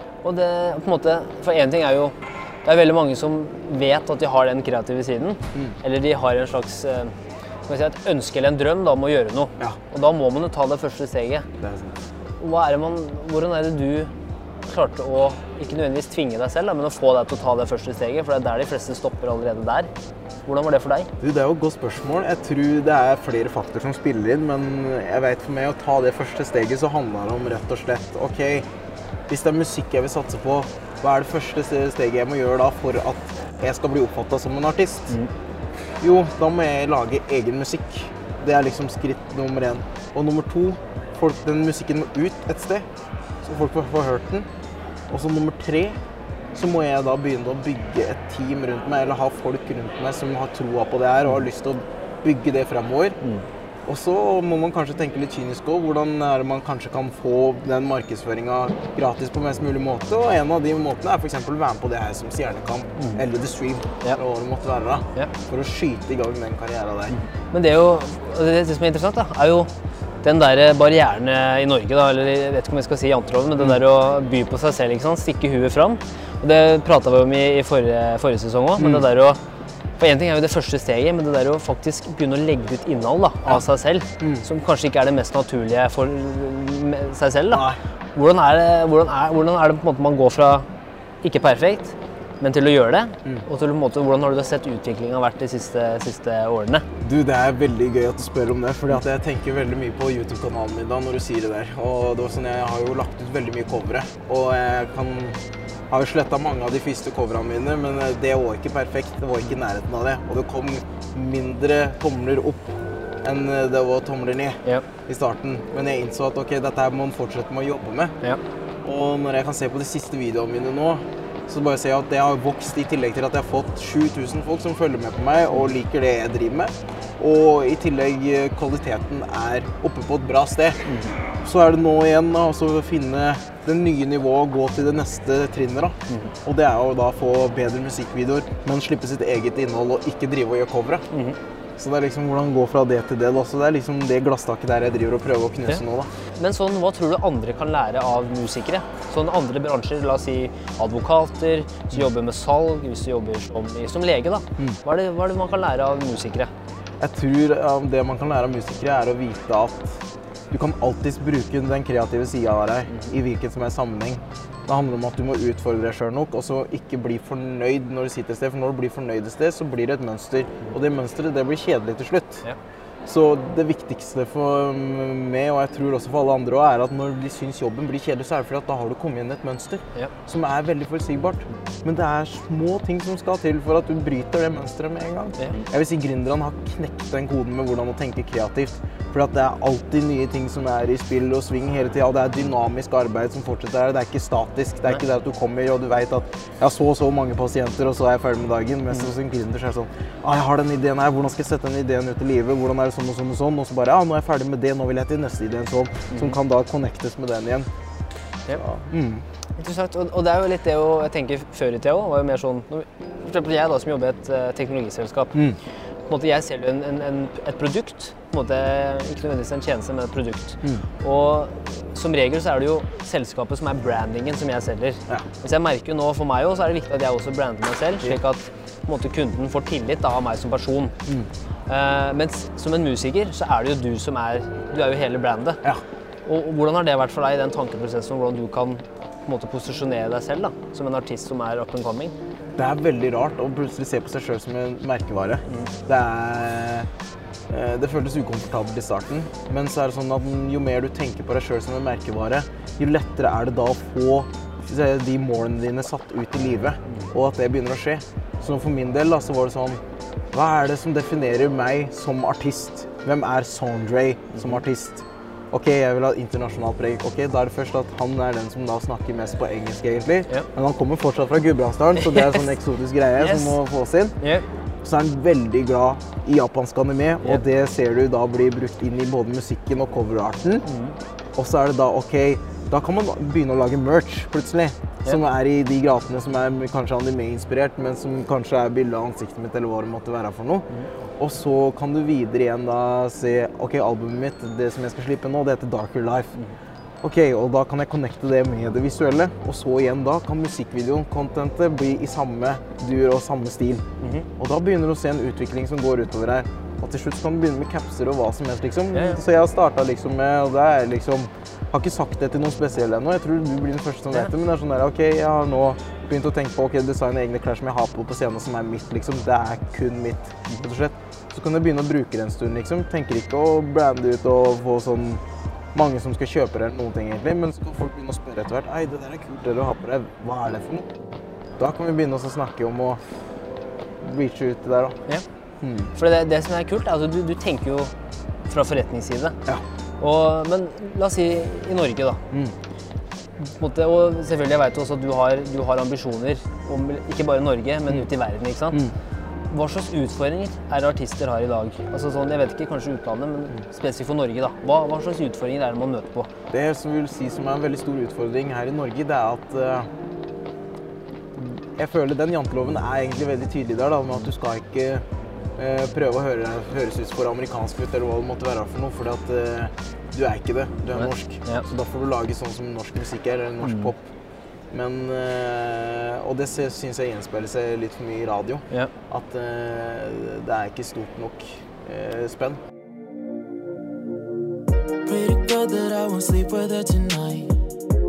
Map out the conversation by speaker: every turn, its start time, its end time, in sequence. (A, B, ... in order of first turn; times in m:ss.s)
0:00.2-0:07.1 A
0:07.7-0:11.5 A
0:11.6-0:12.0 B
0:12.4-0:14.1 A
0:14.7-0:19.9 A
0:20.4-0:21.1 A
0:21.2-0:28.7 B
0:29.3-0:35.2 B
0:36.0-0:42.9 B
0:43.4-0:44.5 B
0:45.1-0:46.0 B
0:46.5-0:53.2 B
0:53.8-1:07.2 B
1:03.0-1:03.2 A
1:07.1-1:09.7 A
1:10.2-1:19.4 A
1:18.8-1:19.1 B
1:20.0-1:30.7 A
1:24.2-1:24.4 B
1:27.5-1:27.8 B
1:31.2-1:36.8 A
1:37.0-1:45.4 B
1:45.9-1:58.2 B
1:58.8-2:10.8 B
2:10.8-2:11.2 A
2:11.4-2:21.1 B
2:16.1-2:16.3 A
2:21.1-2:21.4 A
2:21.8-2:26.1 B
2:26.3-2:36.5 A
2:37.0-2:52.4 B
2:53.0-3:27.7 B
3:05.4-3:05.6 A
3:26.1-3:26.4 A
3:28.6-3:29.2 B
3:29.6-3:35.4 A
3:36.1-3:50.9 A
3:51.7-3:55.6 A
3:56.2-4:02.1 A
4:02.6-4:06.9 B
4:07.5-4:19.8 B
4:20.3-4:34.2 B
4:24.3-4:24.6 A
4:32.0-4:32.4 A
4:33.2-4:33.6 A
4:34.2-4:34.4 A
4:34.8-4:40.6 B
4:40.6-4:41.0 A
4:41.4-4:56.4 B
4:57.0-5:03.8 B
5:04.0-5:04.3 A
5:04.4-5:25.2 B
5:08.9-5:09.2 A
5:25.7-5:30.9 B
5:31.6-5:33.0 B
5:34.0-5:35.0 B
5:35.6-5:35.9 B
5:35.9-5:37.9 A
5:38.4-5:39.4 A
5:40.0-5:42.2 A
5:43.4-5:48.8 A
5:49.5-5:56.3 A
5:56.5-5:59.9 B
6:01.4-6:05.0 B
6:05.6-6:14.0 B
6:11.0-6:11.6 A
6:13.6-6:13.9 A
6:14.7-6:22.6 B
6:25.0-6:27.6 C